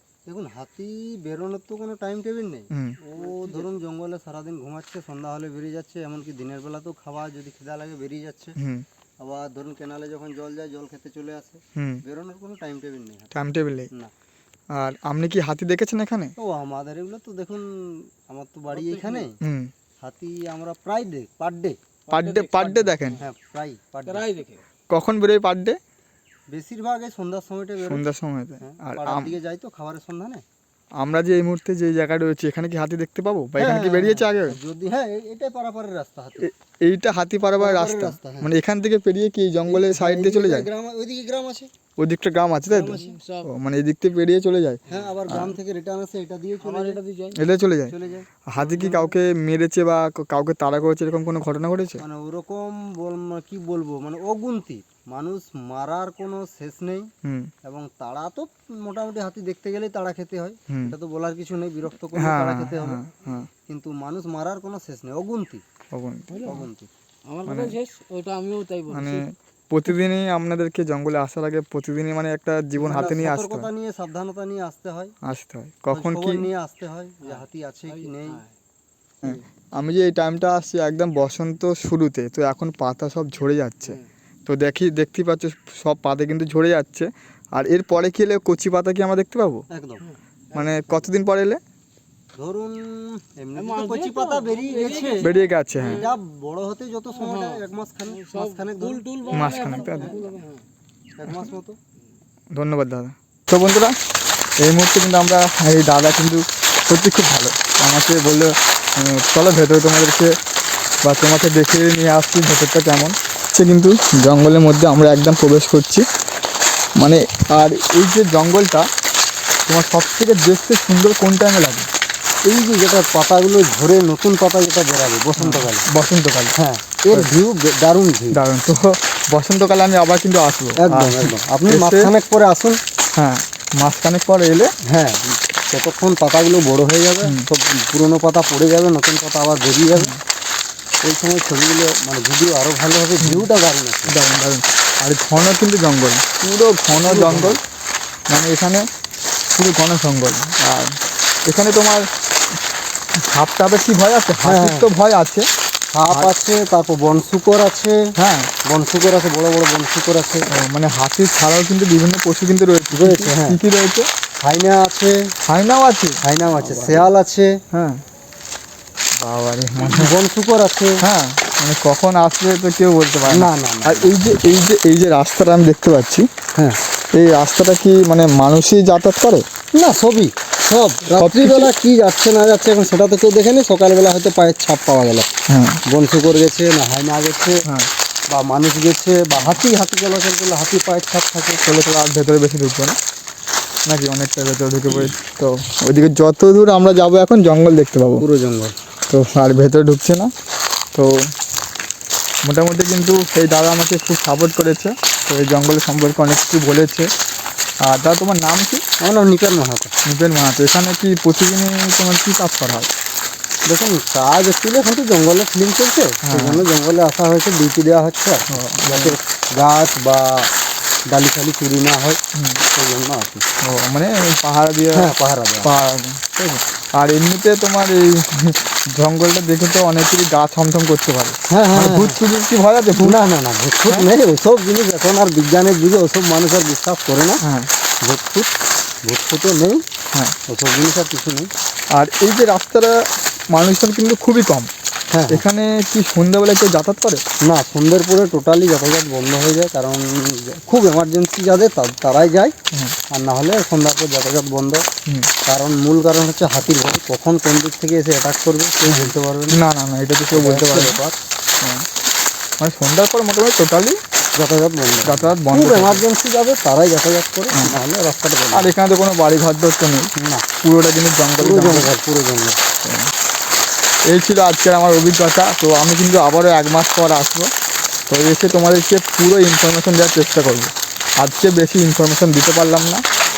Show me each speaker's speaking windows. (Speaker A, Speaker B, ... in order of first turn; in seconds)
Speaker A: 0.2-8.6, 9.2-13.3, 16.4-19.4, 20.0-21.8, 23.2-24.3, 26.5-28.1, 28.6-30.4, 33.6-36.5, 37.6-38.5, 39.7-41.7, 42.7-43.1, 44.9-47.0, 47.9-49.1, 52.0-57.1, 57.6-63.0, 63.6-65.6, 66.4-66.9, 72.8-75.1, 75.9-78.4, 89.7-90.0, 92.3-100.2, 101.2-101.8, 122.5-125.8, 126.6-128.4, 130.8-132.8, 134.8-140.2, 141.0-144.2, 147.0-147.6, 154.4-154.9, 155.9-158.1, 158.7-160.5, 162.9-163.6, 164.4-165.2, 166.2-167.6, 169.8-171.0, 173.3-174.1, 179.7-185.3, 185.9-187.7, 188.3-191.6, 198.2-198.7, 209.0-209.9, 213.7-220.5, 221.1-222.2, 222.7-223.4, 224.9-225.7, 231.5-232.2, 233.0-237.4, 238.0-238.5, 239.1-239.8, 240.5-241.5, 245.1-245.4, 247.4-252.6, 253.1-254.8, 255.4-259.6, 260.3-261.2, 264.4-268.7, 270.2-270.4, 271.4-272.6
Speaker B: 8.6-8.8, 11.8-12.0, 13.3-13.9, 14.7-16.3, 19.4-19.7, 22.1-23.2, 24.9-25.8, 27.8-29.4, 31.0-34.6, 36.4-40.7, 42.0-45.5, 47.3-47.9, 48.5-52.0, 57.2-57.5, 60.7-61.0, 62.1-63.5, 65.9-66.5, 67.4-67.8, 68.9-73.7, 75.2-76.5, 79.2-89.7, 90.5-91.6, 95.2-96.1, 99.3-100.2, 102.5-103.9, 104.6-110.3, 111.0-116.0, 117.0-118.8, 119.7-121.9, 125.4-126.5, 128.3-132.1, 133.2-134.7, 139.9-140.2, 144.1-147.6, 148.3-148.8, 149.6-150.9, 151.5-152.1, 153.3-155.5, 158.2-158.5, 160.5-164.1, 165.4-167.1, 167.7-168.0, 169.2-170.1, 171.0-176.3, 177.1-179.4, 181.1-181.7, 185.5-185.8, 189.3-189.6, 191.6-193.0, 193.9-198.2, 199.1-200.3, 202.4-207.1, 207.8-208.8, 210.1-212.9, 216.2-216.7, 218.5-219.2, 222.3-222.6, 223.6-225.1, 225.6-233.2, 237.4-237.7, 241.9-242.9, 243.5-244.7, 245.3-247.2, 258.9-261.0, 262.6-264.0, 265.0-266.1, 268.5-270.1, 270.6-271.9, 272.8-273.1, 274.1-277.5, 278.1-283.0
Speaker C: 18.7-19.3, 22.1-23.2, 24.1-24.6, 42.9-43.5, 46.6-47.4, 66.3-66.7, 67.3-69.2, 77.2-78.5, 90.0-91.1, 93.5-96.1, 97.1-100.7